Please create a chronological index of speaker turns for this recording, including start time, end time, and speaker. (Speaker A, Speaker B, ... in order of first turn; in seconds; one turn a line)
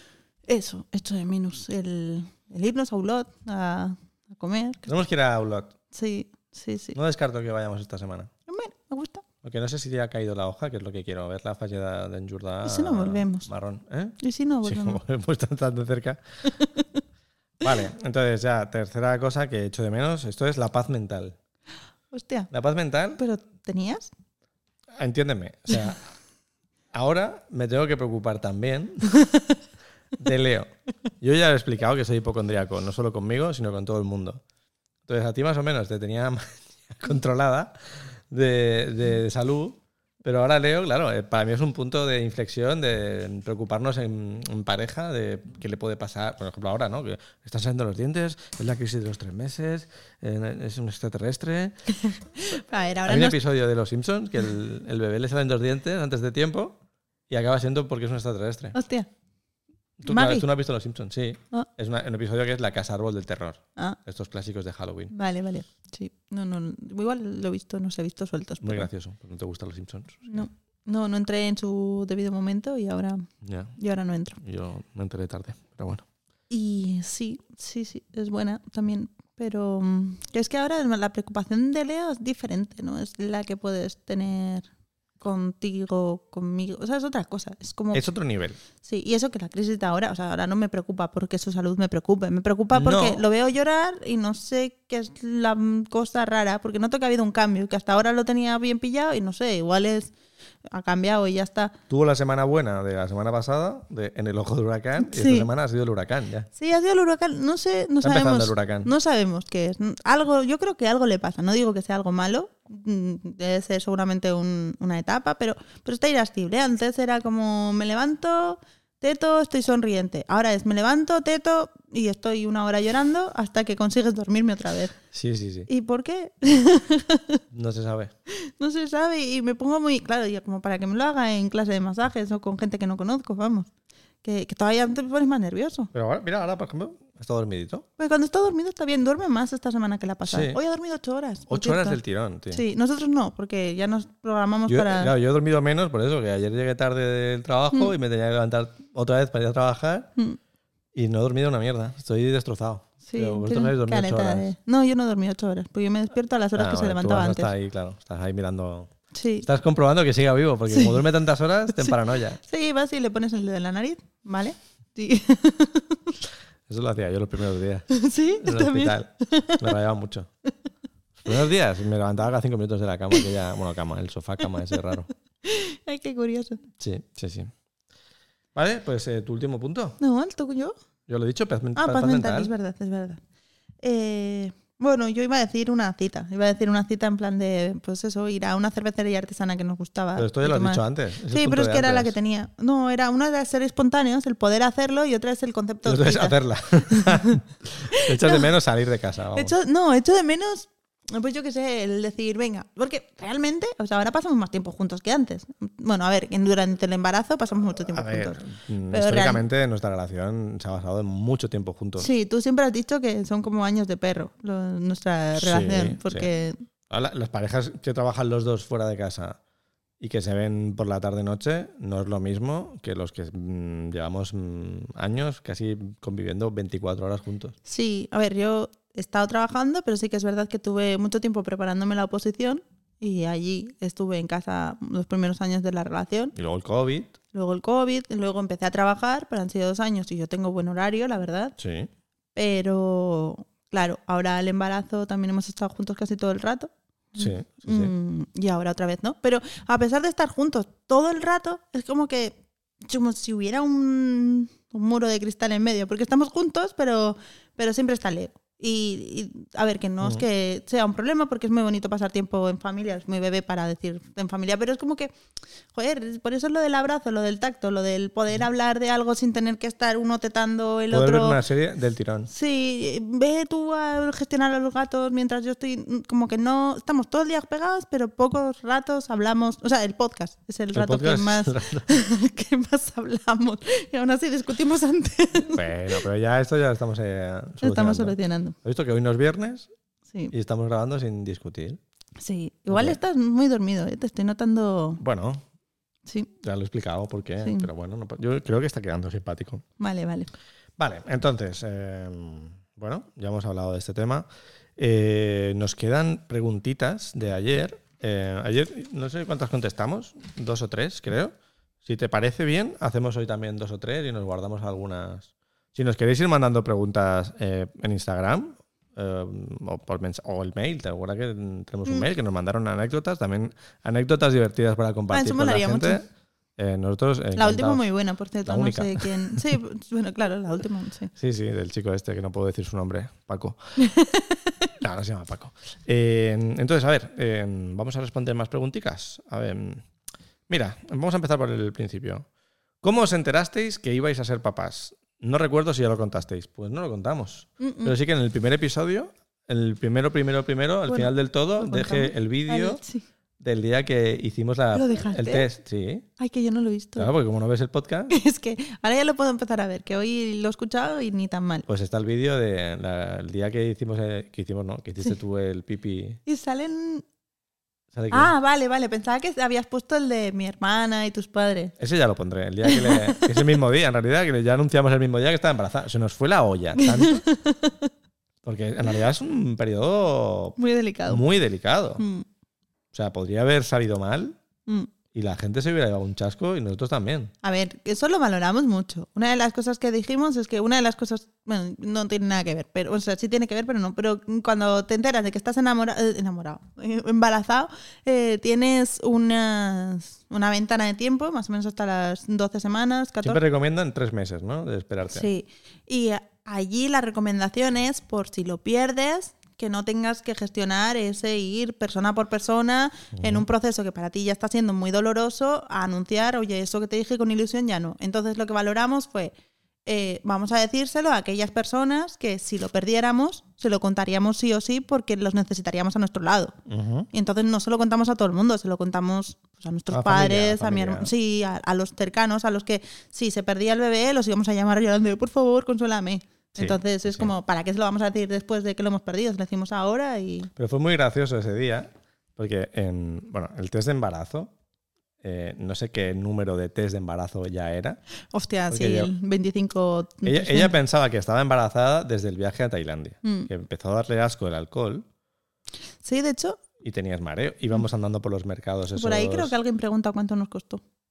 Speaker A: 0.5-5.0
Speaker B: 4.9-5.8
Speaker A: 5.9-7.0
Speaker B: 6.9-8.3
Speaker A: 8.5-9.2
Speaker B: 9.4-16.2
Speaker A: 12.6-13.5
Speaker A: 14.2-15.0
Speaker A: 16.4-17.0
Speaker B: 17.6-21.4
Speaker A: 22.1-22.5
Speaker B: 22.5-23.2
Speaker A: 23.2-24.1
Speaker B: 25.0-26.1
Speaker B: 26.9-29.1
Speaker A: 29.1-29.6
Speaker B: 30.2-34.4
Speaker B: 35.1-37.8
Speaker B: 38.3-51.8
Speaker A: 51.9-53.4
Speaker B: 53.1-56.8
Speaker B: 57.3-58.8
Speaker A: 58.7-59.1
Speaker B: 60.0-65.1
Speaker A: 60.1-60.5
Speaker A: 65.1-68.9
Speaker B: 68.6-70.5
Speaker A: 70.3-74.4
Speaker B: 73.4-73.8
Speaker B: 74.4-76.0
Speaker A: 76.5-84.7
Speaker A: 85.2-88.0
Speaker B: 87.9-88.6
Speaker A: 88.8-100.1
Speaker B: 92.7-93.2
Speaker A: 100.7-101.8
Speaker B: 101.9-106.5
Speaker A: 105.0-105.5
Speaker A: 106.6-125.0
Speaker B: 108.0-108.9
Speaker B: 125.1-125.7
Speaker A: 125.7-127.4
Speaker B: 127.5-128.1
Speaker A: 128.3-133.7
Speaker A: 134.2-135.9
Speaker B: 135.9-137.8
Speaker A: 138.0-142.0
Speaker B: 140.3-140.6
Speaker B: 141.5-142.6
Speaker A: 142.5-145.1
Speaker B: 144.7-150.1
Speaker B: 150.9-154.5
Speaker A: 153.1-157.5
Speaker B: 156.6-162.4
Speaker A: 159.1-159.5
Speaker A: 160.7-161.1
Speaker A: 161.8-166.2
Speaker B: 166.7-170.3
Speaker A: 167.9-169.7
Speaker B: 171.2-175.1
Speaker A: 174.4-174.8
Speaker A: 175.4-176.6
Speaker B: 176.8-177.5
Speaker B: 178.6-180.0
Speaker A: 180.0-180.8
Speaker B: 181.1-182.5
Speaker A: 181.8-183.2
Speaker A: 183.8-197.4
Speaker B: 190.2-192.1
Speaker B: 195.8-199.5
Speaker A: 197.9-198.5
Speaker A: 199.3-208.4
Speaker B: 207.9-212.1
Speaker A: 208.9-209.4
Speaker A: 212.0-216.6
Speaker B: 215.3-216.3
Speaker B: 216.9-219.4
Speaker B: 220.0-227.6
Speaker A: 227.7-236.3
Speaker B: 236.3-237.2
Speaker A: 237.3-241.6
Speaker B: 241.6-241.9
Speaker A: 242.3-265.1
Speaker B: 247.2-247.9
Speaker A: 265.7-271.4
Speaker B: 270.9-272.3
Speaker A: 272.3-285.7
Speaker B: 280.7-281.9
Speaker B: 285.4-289.7
Speaker A: 287.6-288.6
Speaker B: 290.3-291.8
Speaker A: 292.2-295.0
Speaker B: 292.7-293.0
Speaker B: 295.0-295.4
Speaker B: 296.4-299.6
Speaker A: 297.4-297.7
Speaker A: 299.8-300.3
Speaker B: 300.8-304.3
Speaker B: 304.8-326.0
Speaker A: 325.1-326.0
Speaker B: 326.6-327.9
Speaker A: 327.4-331.1
Speaker B: 328.5-329.5
Speaker B: 331.2-333.8
Speaker A: 333.8-334.6
Speaker B: 334.8-339.9
Speaker B: 340.5-342.3
Speaker B: 342.8-352.8
Speaker A: 347.6-347.9
Speaker A: 350.9-353.1
Speaker B: 353.4-356.1
Speaker A: 354.7-355.5
Speaker A: 356.2-357.1
Speaker B: 357.0-358.2
Speaker A: 358.1-361.7
Speaker B: 361.7-366.2
Speaker A: 366.3-367.1
Speaker B: 367.9-368.3
Speaker A: 368.1-371.7
Speaker B: 371.8-377.2
Speaker A: 372.6-373.3
Speaker A: 376.8-377.9
Speaker B: 378.4-382.0
Speaker A: 380.6-381.2
Speaker A: 382.0-382.3
Speaker B: 382.9-384.4
Speaker A: 384.7-384.9
Speaker B: 385.1-387.3
Speaker A: 387.4-403.4
Speaker B: 403.2-405.3
Speaker A: 405.1-419.3
Speaker B: 413.1-413.5
Speaker A: 419.9-426.6
Speaker B: 426.7-427.1
Speaker A: 427.1-440.5
Speaker B: 429.9-431.1
Speaker B: 436.6-437.3
Speaker B: 440.6-444.5
Speaker B: 445.2-448.0
Speaker A: 448.3-450.7
Speaker B: 448.7-449.1
Speaker B: 450.2-455.1
Speaker A: 453.2-453.5
Speaker A: 456.0-456.6
Speaker B: 456.8-459.5
Speaker A: 458.9-460.8